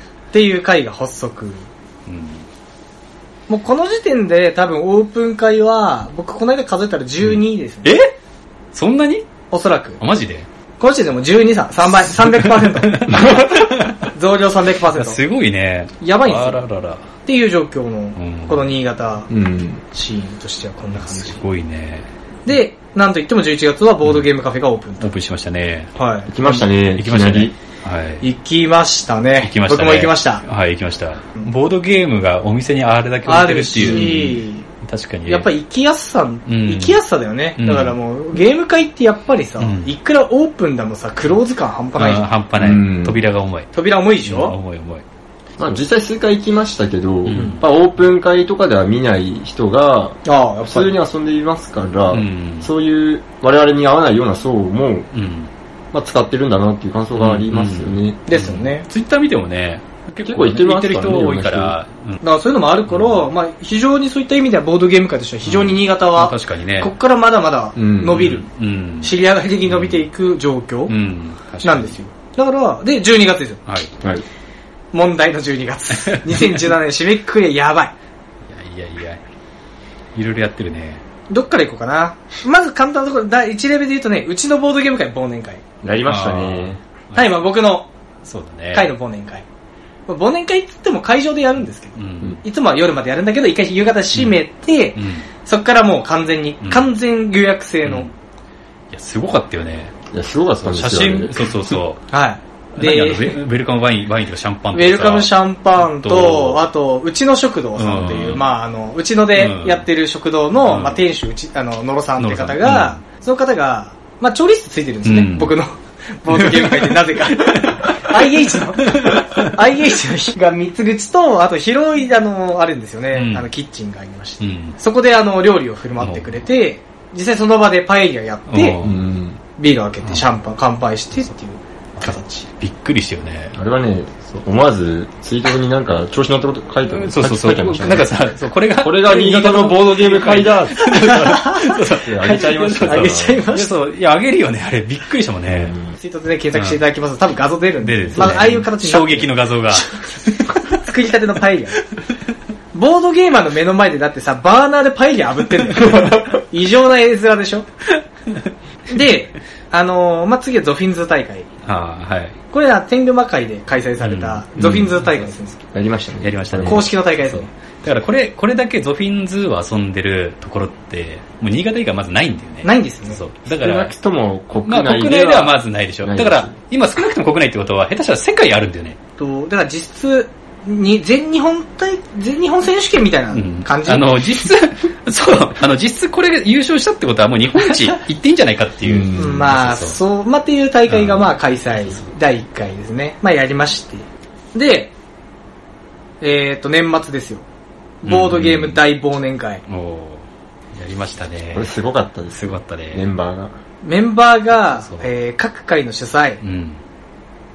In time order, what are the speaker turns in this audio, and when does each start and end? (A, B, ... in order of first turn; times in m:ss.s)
0:00.3-0:01.6 A
0:02.1-0:02.4 B
0:03.5-0:08.0 A
0:07.2-0:08.1 B
0:08.7-0:09.2 B
0:09.5-0:10.0 A
0:10.0-0:10.5 B
0:10.8-0:13.4 A
0:12.1-0:14.0 B
0:14.1-0:15.2 A
0:14.9-0:17.0 B
0:16.0-0:16.6 A
0:17.2-0:19.3 A
0:18.2-0:18.7 B
0:19.3-0:19.8 C
0:19.9-0:21.4 A
0:20.9-0:22.1 B
0:22.4-0:25.1 A
0:25.0-0:25.9 B
0:26.0-0:26.6 A
0:26.3-0:27.5 C
0:26.4-0:28.2 B
0:28.2-0:30.4 A
0:29.4-0:35.5 B
0:33.2-0:34.7 A
0:33.8-0:34.2 C
0:35.3-0:42.2 A
0:36.5-0:37.0 B
0:37.6-0:38.0 B
0:39.6-0:39.9 B
0:42.0-0:43.7 B
0:42.6-0:43.2 C
0:43.7-0:44.6 A
0:44.2-0:45.0 B
0:45.6-0:55.1 C
0:47.2-0:47.6 B
0:50.2-0:51.0 A
0:52.1-0:52.7 B
0:55.1-0:55.5 B
0:55.9-0:58.2 C
0:57.2-1:02.2 B
0:58.3-0:58.8 A
1:00.2-1:01.7 C
1:02.2-1:08.5 A
1:02.9-1:03.3 B
1:05.4-1:06.9 B
1:07.8-1:08.2 C
1:08.1-1:10.0 B
1:09.0-1:10.9 A
1:10.9-1:12.0 B
1:11.6-1:13.6 A
1:13.7-1:13.9 B
1:14.9-1:17.9 A
1:16.1-1:16.4 B
1:18.5-1:19.2 B
1:20.1-1:21.0 B
1:21.3-1:25.6 A
1:25.8-1:26.8 C
1:26.0-1:27.4 B
1:27.1-1:27.9 A
1:28.2-1:28.9 B
1:28.7-1:29.4 A
1:30.1-1:38.1 A
1:32.0-1:32.4 B
1:34.1-1:34.4 B
1:35.0-1:35.3 B
1:36.6-1:36.9 B
1:37.8-1:38.1 B
1:38.9-1:39.9 B
1:40.1-1:41.6 C
1:40.6-1:42.0 B
1:42.1-1:43.4 A
1:42.8-1:46.6 B
1:44.7-2:08.8 A
1:47.8-1:48.4 B
1:49.3-1:49.8 B
1:50.6-1:51.0 B
1:52.2-1:53.0 B
1:55.0-1:55.5 B
1:56.4-1:58.2 B
1:58.8-1:59.5 B
2:03.1-2:03.4 B
2:04.4-2:04.8 B
2:06.0-2:06.4 B
2:08.5-2:09.0 B
2:08.8-2:09.4 C
2:09.6-2:12.4 A
2:12.0-2:13.6 B
2:13.5-2:18.1 C
2:16.9-2:25.8 B
2:18.8-2:23.5 C
2:21.0-2:21.7 A
2:22.8-2:23.7 A
2:25.5-2:25.9 C
2:25.9-2:31.8 A
2:26.5-2:26.8 B
2:27.8-2:30.6 B
2:28.1-2:28.4 C
2:32.7-2:37.7 A
2:38.9-2:41.5 A
2:41.6-2:42.4 B
2:42.5-2:45.6 A
2:44.0-2:45.2 B
2:44.6-2:44.9 C
2:45.7-2:46.9 C
2:46.2-2:53.9 B
2:46.6-2:47.5 A
2:52.6-2:53.2 A
2:53.6-2:56.5 C
2:54.7-2:59.0 B
2:59.2-3:04.4 A
3:03.3-3:10.0 B
3:08.9-3:09.3 C
3:09.1-3:14.9 A
3:10.9-3:12.1 B
3:16.2-3:17.4 A
3:18.0-3:19.6 A
3:18.0-3:18.8 B
3:19.7-3:21.7 B
3:21.5-3:23.5 C
3:22.3-3:23.1 B
3:23.8-3:26.4 A
3:24.8-3:25.1 B
3:26.4-3:26.8 B